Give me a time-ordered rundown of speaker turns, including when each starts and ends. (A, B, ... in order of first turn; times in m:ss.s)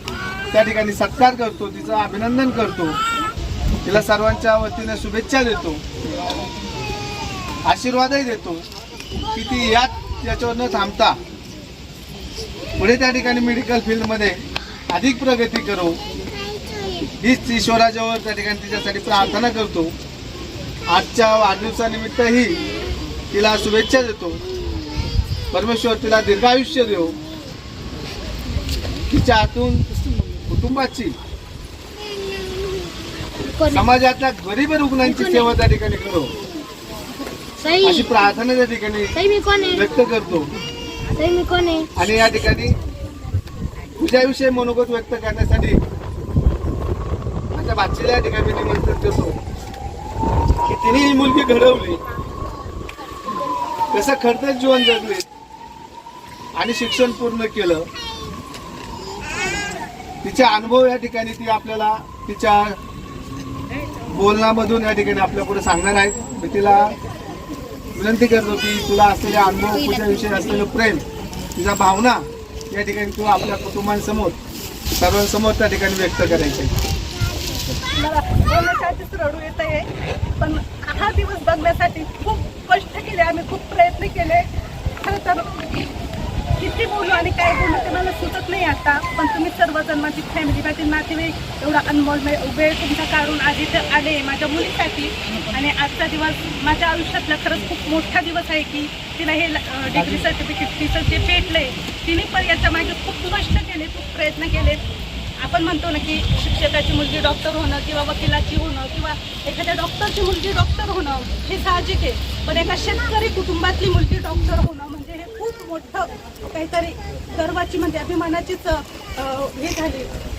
0:00.5-0:03.0 A
0:03.8-0:06.2 A
0:07.6-0:08.6 A
0:09.3-0:11.2 A
0:12.8-0:16.0 A
0:17.2-0:19.9 A
0:20.9-0:22.6 A
0:23.3-0:24.4 A
0:25.5-0:27.1 A
0:29.1-0:29.9 A
0:30.5-0:31.1 A
0:33.4-0:33.9 B
0:33.7-0:36.3 A
0:35.0-0:35.5 B
0:37.6-0:38.1 B
0:37.8-0:39.2 A
0:39.1-0:39.9 B
0:39.7-0:40.5 A
0:41.2-0:41.9 B
0:42.0-0:42.8 A
0:44.0-0:45.8 A
0:47.5-0:49.4 A
0:50.7-0:52.0 A
0:53.9-0:55.2 A
0:56.6-0:57.9 A
1:00.2-1:02.8 A
1:04.1-1:06.9 A
1:08.0-1:11.0 A
1:11.6-1:14.4 A
1:15.0-1:16.7 A
1:17.8-1:19.8 C
1:20.4-1:24.4 C
1:25.0-1:25.5 C
1:26.6-1:44.8 C
1:45.4-2:00.1 C